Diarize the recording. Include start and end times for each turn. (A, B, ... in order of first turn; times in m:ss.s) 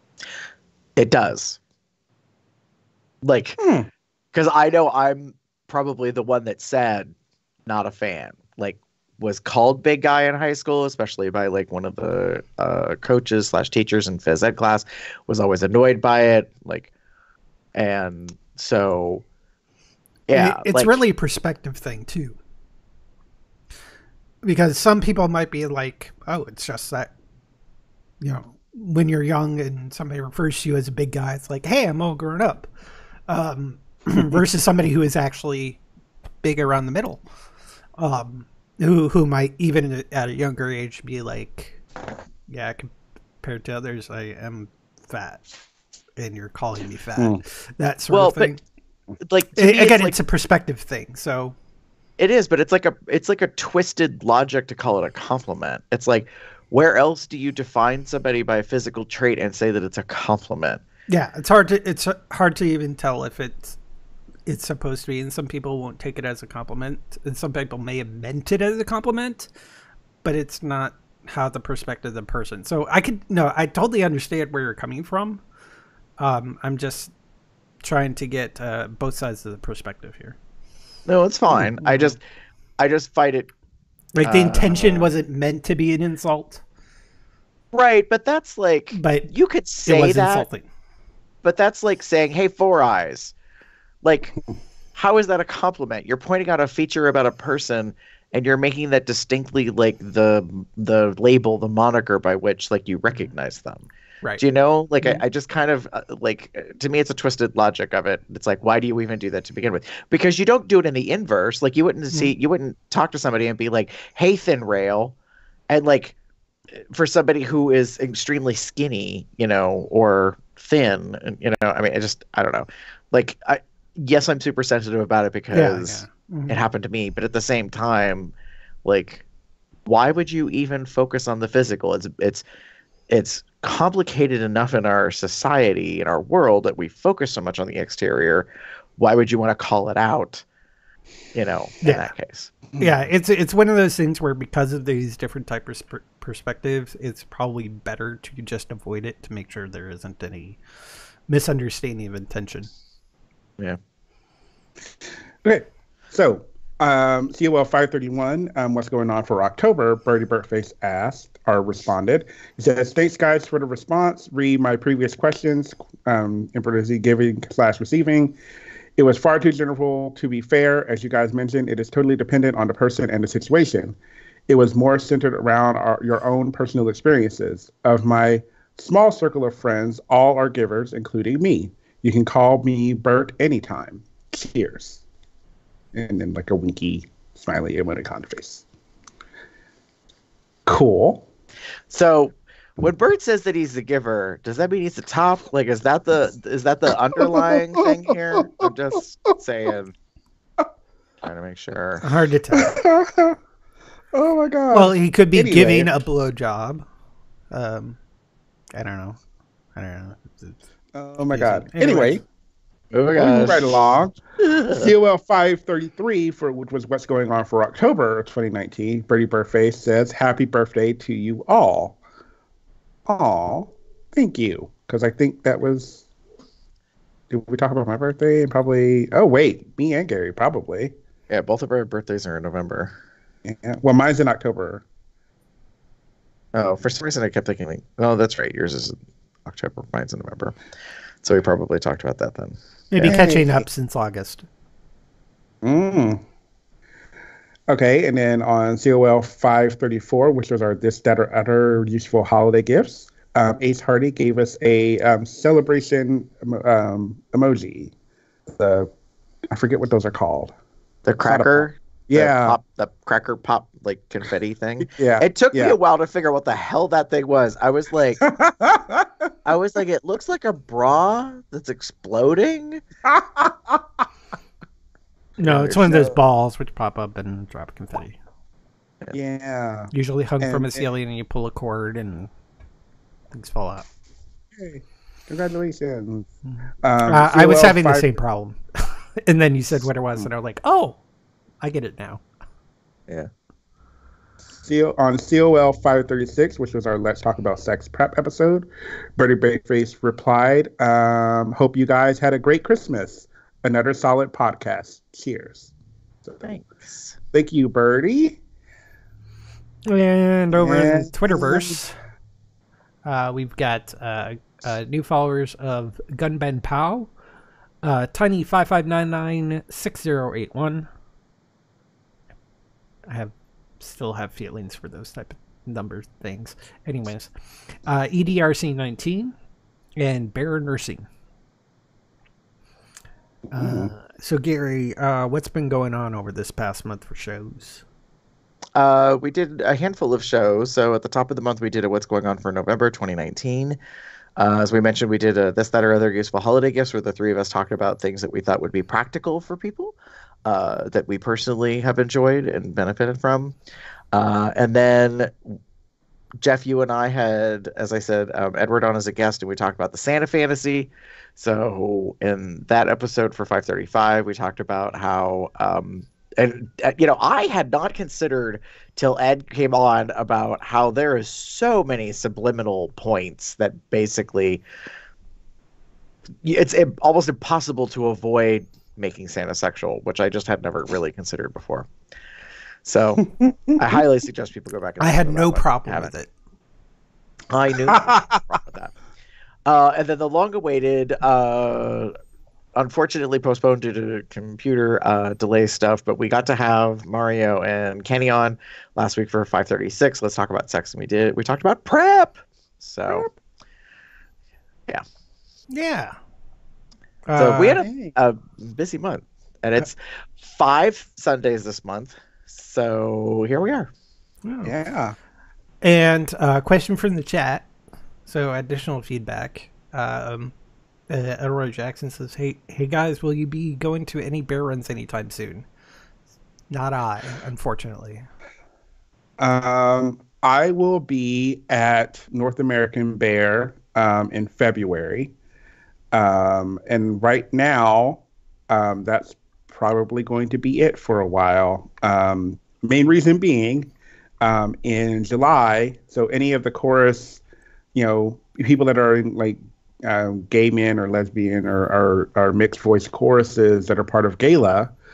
0:01.0-0:01.6 A
0:03.2-0:03.6 A
0:03.6-0:03.9 B
0:04.3-0:07.1 A
0:07.7-0:16.9 A
0:17.8-0:19.2 A
0:20.3-0:21.0 A
0:20.3-0:22.4 C
0:24.4-0:27.1 C
0:28.2-0:32.7 C
0:33.3-0:35.8 C
0:36.4-0:37.2 C
0:38.0-0:41.8 C
0:42.5-0:45.4 C
0:46.2-0:48.6 C
0:48.1-0:48.5 A
0:49.2-0:50.2 A
0:49.6-0:51.6 C
0:52.2-1:00.8 A
1:01.1-1:03.8 C
1:04.5-1:09.5 C
1:10.2-1:15.4 C
1:16.2-1:17.1 C
1:17.8-1:20.4 C
1:21.1-1:22.2 A
1:21.8-1:22.2 C
1:22.8-1:23.5 A
1:24.2-1:26.6 C
1:24.2-1:25.1 A
1:27.7-1:30.5 A
1:28.9-1:29.3 C
1:29.9-1:30.7 C
1:31.4-1:33.3 A
1:34.0-1:34.4 A
1:35.0-1:55.2 A
1:55.7-1:56.2 A
1:56.8-2:08.3 A
2:05.5-2:06.6 C
2:08.8-2:09.2 A
2:09.9-2:12.4 A
2:13.1-2:20.4 A
2:21.3-2:22.6 A
2:21.8-2:22.1 C
2:22.7-2:23.0 B
2:22.8-2:30.6 C
2:31.3-2:32.7 C
2:35.4-2:48.4 B
2:49.0-2:54.0 B
2:54.5-3:05.0 B
3:05.9-3:08.7 B
3:10.7-3:11.3 B
3:11.9-3:19.9 A
3:17.2-3:17.9 B
3:21.2-3:22.0 A
3:22.0-3:22.8 C
3:22.6-3:23.4 B
3:24.1-3:25.9 B
3:24.7-3:26.8 C
3:27.5-3:28.0 C
3:28.7-3:29.2 C
3:29.8-3:30.6 C
3:30.9-3:32.2 B
3:31.3-3:32.2 C
3:32.9-3:33.8 A
3:33.2-3:34.2 B
3:34.4-3:34.9 A
3:34.8-3:42.0 B
3:43.1-3:46.0 B
3:47.3-3:51.0 B
3:51.3-3:52.9 A
3:53.4-3:54.8 B
3:56.6-4:00.6 A
4:01.2-4:02.6 A
4:02.9-4:04.5 C
4:03.0-4:03.6 B
4:05.6-4:06.2 B
4:07.7-4:17.9 B
4:18.5-4:18.9 B
4:19.5-4:20.5 B
4:21.1-4:28.2 A
4:21.3-4:22.6 B
4:24.8-4:25.8 B
4:28.2-4:29.3 B
4:29.5-4:32.8 A
4:33.0-4:34.0 B
4:35.4-4:38.2 C
4:35.4-4:36.2 B
4:39.1-4:40.9 B
4:39.9-4:42.3 C
4:43.3-4:43.9 C
4:44.5-4:46.3 B
4:46.5-4:51.0 C
4:46.8-4:48.1 B
4:51.6-4:52.2 C
4:54.6-5:05.7 B
5:06.2-5:06.6 B
5:06.4-5:07.2 A
5:07.3-5:08.4 B
5:09.9-5:12.0 C
5:10.6-5:11.8 B
5:13.0-5:17.1 C
5:17.8-5:20.9 C
5:23.1-5:27.3 C
5:27.8-5:29.3 C
5:30.0-5:31.1 C
5:33.5-5:33.9 B
5:33.5-5:37.8 C
5:38.8-5:43.8 A
5:44.4-5:53.6 A
5:54.1-5:55.6 A
5:56.4-6:14.6 A
6:16.4-6:21.9 A
6:22.8-6:26.1 A
6:23.3-6:24.0 B
6:25.0-6:26.3 C
6:27.5-6:28.9 A
6:27.9-6:28.6 B
6:29.7-6:32.1 A
6:32.8-6:43.3 A
6:43.1-6:43.3 B
6:45.7-6:46.2 C
6:47.3-6:47.8 C
6:47.4-6:53.9 A
6:47.8-6:48.1 B
6:54.4-6:54.7 C
6:54.6-6:55.2 B
6:55.8-6:57.7 C
6:58.3-7:00.5 C
7:01.1-7:05.7 C
7:06.7-7:08.3 C
7:09.4-7:15.3 B
7:16.1-7:27.4 B
7:28.0-7:34.9 B